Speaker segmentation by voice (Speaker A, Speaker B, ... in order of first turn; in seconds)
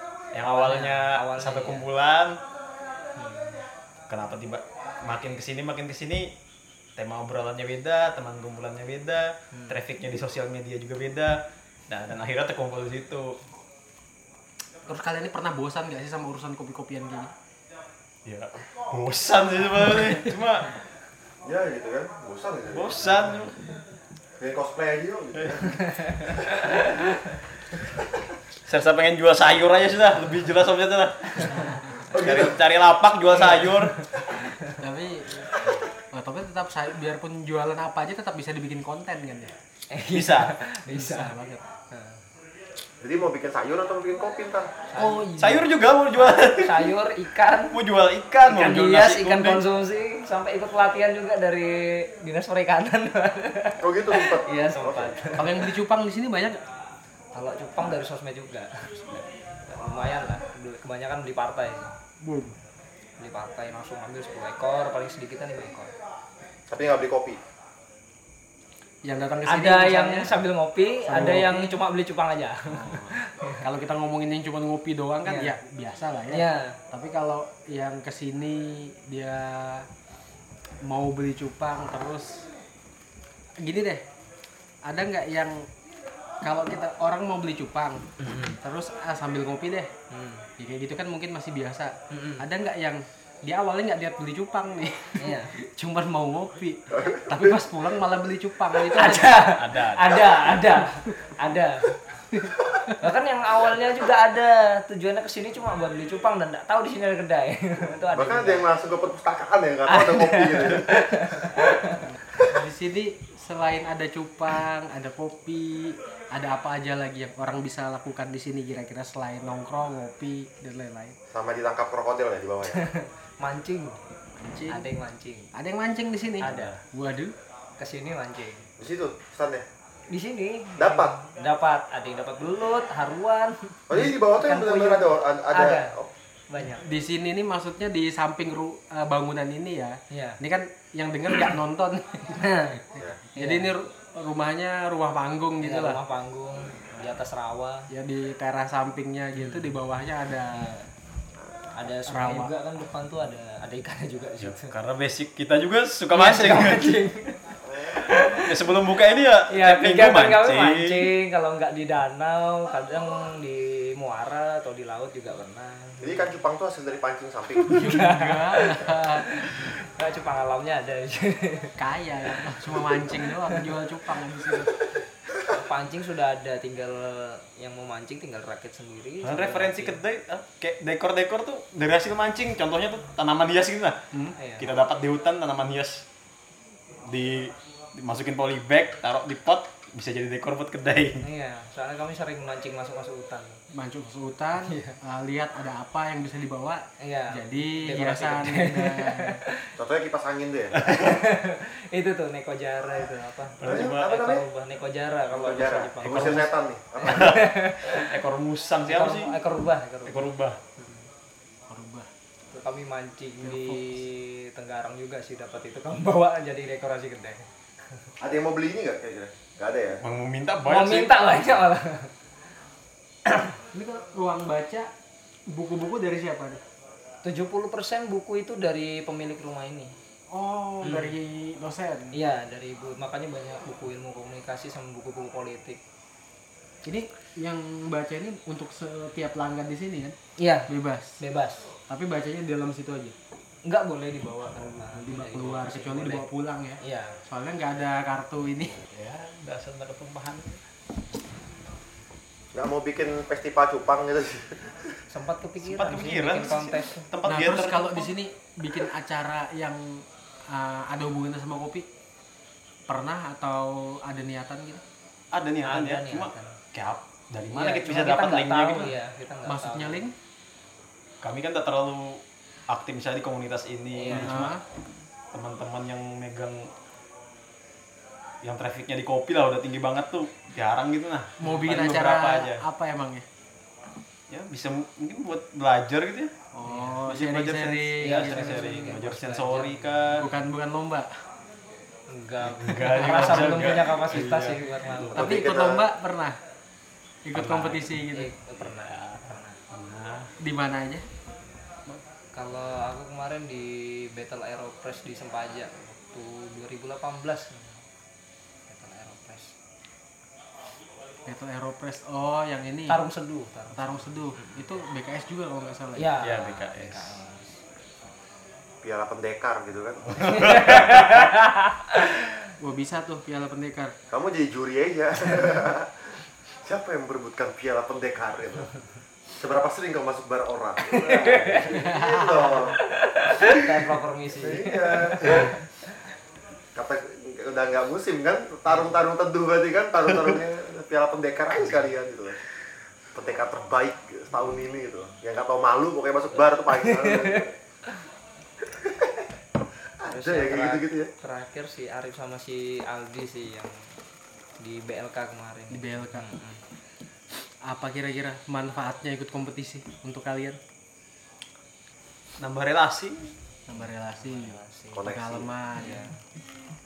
Speaker A: 0.3-2.4, 4.1-6.3, 7.0-13.4, 18.2-20.8, 22.7-23.6, 28.6-34.0, 40.1-40.5, 45.4-46.9, 47.7-49.6, 99.5-100.3, 126.4-126.8, 154.4-157.0, 158.0-161.1, 179.2-184.0, 184.6-186.1, 187.0-191.2, 200.7-201.2, 203.6-204.1, 206.0-206.5, 207.0-209.3, 210.1-210.6, 220.0-221.1, 248.9-250.6, 255.6-258.1, 265.3-268.9, 271.2-274.6, 275.3-276.7, 278.4-282.6, 284.3-286.3, 287.0-290.3, 292.4-295.3, 297.3-297.9, 298.6-300.3, 316.2-317.2, 320.1-321.3, 362.4-363.3
Speaker B: 0.4-1.9, 3.2-3.6, 9.5-9.8, 25.8-27.3, 31.3-31.8, 33.3-34.8, 39.9-41.3, 41.9-42.2, 44.9-47.8, 48.4-55.7, 57.3-61.9, 63.2-65.9, 69.5-73.6, 75.2-75.6, 76.3-76.8, 88.2-88.6, 90.1-90.5, 92.1-92.4, 95.2-95.5, 98.7-102.0, 103.0-108.7, 109.9-112.1, 122.7-124.0, 124.7-125.5, 126.4-126.8, 127.8-128.7, 130.1-136.0, 136.5-136.8, 140.1-140.4, 142.3-143.7, 145.6-147.9, 149.3-149.7, 150.5-150.9, 151.7-154.7, 156.1-158.6, 159.5-166.4, 167.7-171.7, 172.3-173.7, 175.4-180.0, 184.3-184.7, 191.2-193.6, 194.6-195.0, 197.0-199.7, 200.8-208.1, 208.8-211.1, 212.5-218.1, 220.6-222.1, 223.2-223.5, 227.2-229.9, 230.8-231.1, 232.1-235.8, 240.4-241.7, 243.6-246.3, 246.8-247.2, 255.1-257.1, 265.6-266.6, 267.5-270.0, 273.9-274.5, 286.6-287.0, 288.0-290.3, 292.1-295.3, 297.7-299.6, 302.3-307.8, 308.7-309.5, 312.9-314.7, 315.9-317.6, 320.2-322.4, 330.8-335.6, 346.7-348.0, 350.0-353.8, 354.6-356.6, 363.7-365.1, 365.8-366.2
Speaker C: 14.9-17.3, 34.7-39.5, 40.9-41.7, 45.0-45.4, 55.3-56.6, 62.2-62.6, 69.0-70.4, 71.0-71.8, 72.7-79.9, 80.8-82.5, 83.6-84.0, 84.8-85.7, 86.4-89.9, 90.6-99.5, 112.4-121.2, 124.4-124.8, 125.5-127.3, 136.7-142.5, 143.3-146.0, 147.9-150.8, 152.1-152.5, 167.7-169.3, 171.8-174.7, 193.7-199.4, 211.7-212.1, 213.4-214.0, 223.7-224.9, 225.5-226.6, 230.3-232.1, 236.8-240.2, 240.7-241.2, 241.9-243.2, 244.8-248.8, 257.2-261.9, 262.9-264.8, 269.4-270.1, 274.1-274.6, 281.4-283.2, 286.5-288.8, 290.2-291.1, 293.0-293.4, 295.1-296.4, 297.2-298.3, 300.4-301.1, 311.2-313.0, 313.7-316.1, 322.6-323.9, 331.6-332.8, 355.7-356.3, 357.6-360.6, 363.7-366.1
Speaker D: 21.4-23.3, 24.4-26.6, 32.1-32.5, 43.0-44.7, 53.8-55.4, 66.7-67.4, 96.9-97.5, 108.1-111.6, 121.3-122.8, 128.8-129.6, 130.8-131.2, 133.9-136.1, 142.9-143.2, 157.6-158.0, 166.0-167.9, 199.8-200.8, 203.6-204.4, 205.3-207.5, 218.2-220.0, 252.5-254.9, 295.1-295.9, 318.8-320.5, 324.1-326.0, 326.6-328.7, 329.4-332.8, 334.3-335.5, 336.7-342.4, 343.1-347.6, 348.7-349.2, 350.0-351.1, 364.9-365.5